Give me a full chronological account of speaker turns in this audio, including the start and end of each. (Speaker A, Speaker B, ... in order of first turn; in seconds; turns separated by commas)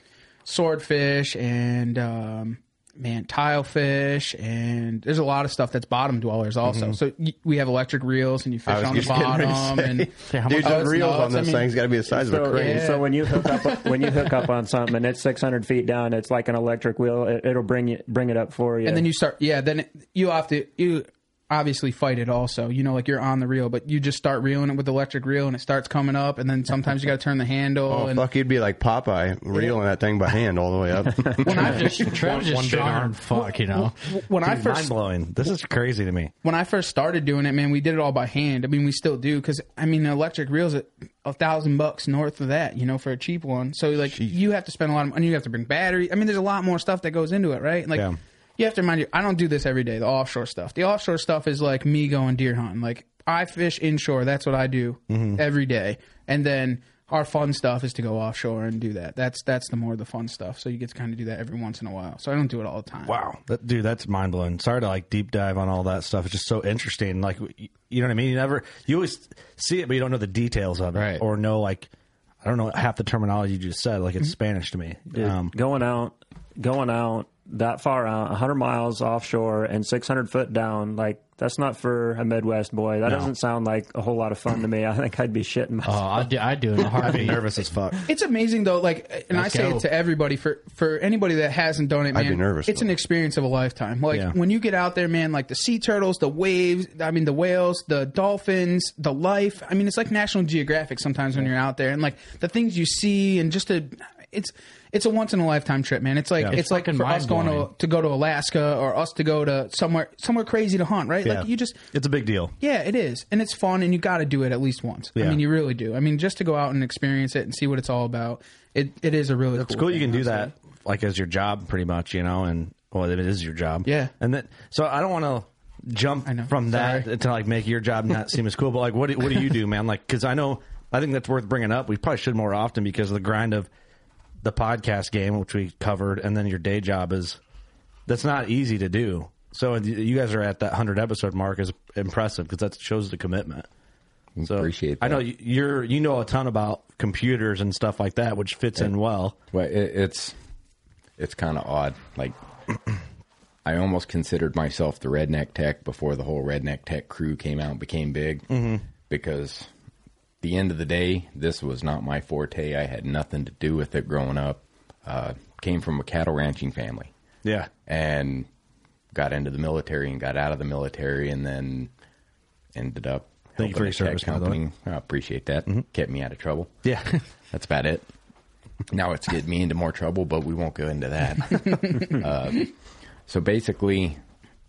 Speaker A: 0.4-11.8, Speaker B: 6.6-7.0, Speaker C: 8.7-12.9, Speaker D: 10.3-10.9, Speaker E: 12.1-19.1, Speaker A: 12.5-13.1, Speaker A: 18.9-28.2, Speaker C: 27.9-31.8, Speaker A: 31.4-32.1, Speaker D: 31.4-34.0, Speaker B: 32.1-33.2, Speaker A: 33.3-34.9, Speaker B: 34.4-36.3, Speaker A: 36.4-63.1, Speaker B: 55.1-55.4, Speaker B: 63.0-71.9, Speaker D: 70.9-71.2, Speaker B: 72.4-75.5, Speaker E: 75.1-86.3, Speaker D: 85.8-87.4, Speaker B: 87.0-88.0, Speaker A: 88.1-111.9, Speaker D: 89.3-89.8, Speaker C: 92.1-92.9, Speaker B: 94.1-94.3, Speaker D: 106.5-107.7, Speaker B: 111.2-112.5, Speaker A: 112.6-120.5, Speaker B: 115.2-115.4, Speaker B: 119.5-133.7, Speaker A: 123.8-124.1, Speaker A: 126.2-127.1, Speaker B: 134.4-137.4, Speaker B: 138.1-143.7, Speaker F: 144.4-145.2, Speaker B: 144.4-149.3, Speaker F: 149.5-150.3, Speaker F: 151.2-152.3, Speaker F: 153.6-158.5, Speaker B: 158.5-158.8, Speaker F: 159.1-159.7, Speaker F: 160.4-167.1, Speaker B: 167.4-167.7, Speaker F: 167.9-168.5, Speaker F: 169.1-171.9, Speaker F: 172.7-176.7, Speaker B: 173.6-174.6, Speaker B: 176.8-177.2, Speaker F: 177.5-178.1, Speaker F: 178.9-182.7, Speaker F: 183.3-184.2